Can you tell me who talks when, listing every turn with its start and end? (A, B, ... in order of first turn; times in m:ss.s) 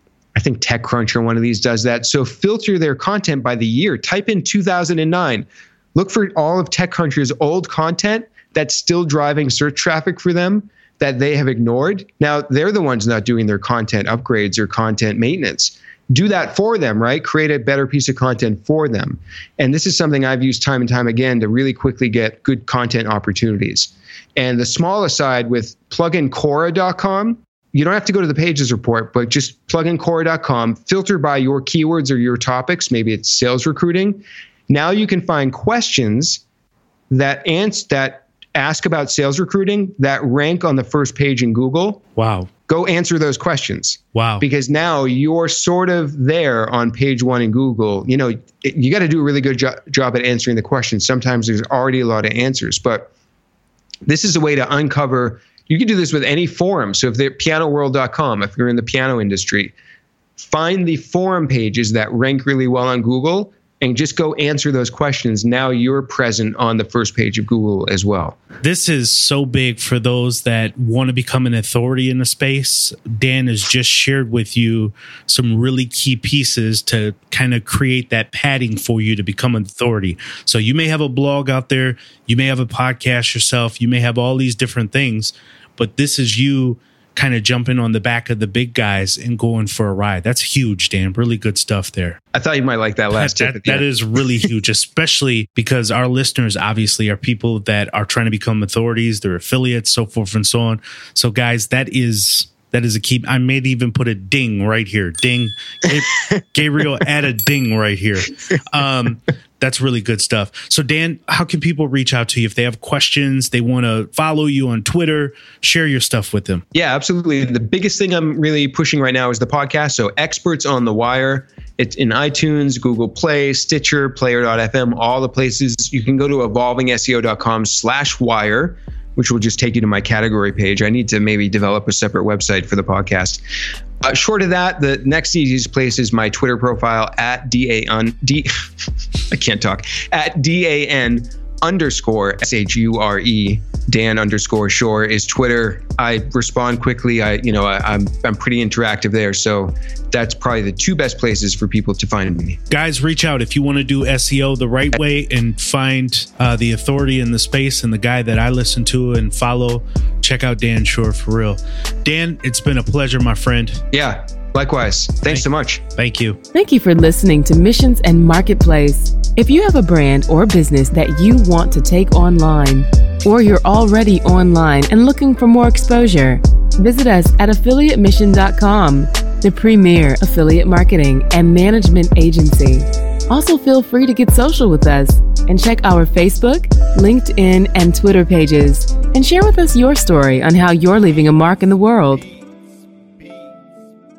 0:00.4-0:36.4 A
0:37.1-0:42.0 A
0:42.2-0:42.5 B
0:42.7-0:53.1 A
0:44.1-0:44.4 B
0:54.0-0:59.7 A
1:00.4-1:08.4 A
1:08.6-1:32.2 B
1:32.3-1:34.2 A
1:33.1-1:56.6 B
1:56.7-2:13.4 A
2:14.0-2:18.5 A
2:19.3-2:32.6 A
2:32.7-2:43.8 B
2:43.9-2:45.8 A
2:45.3-2:46.4 B
2:46.5-3:12.3 C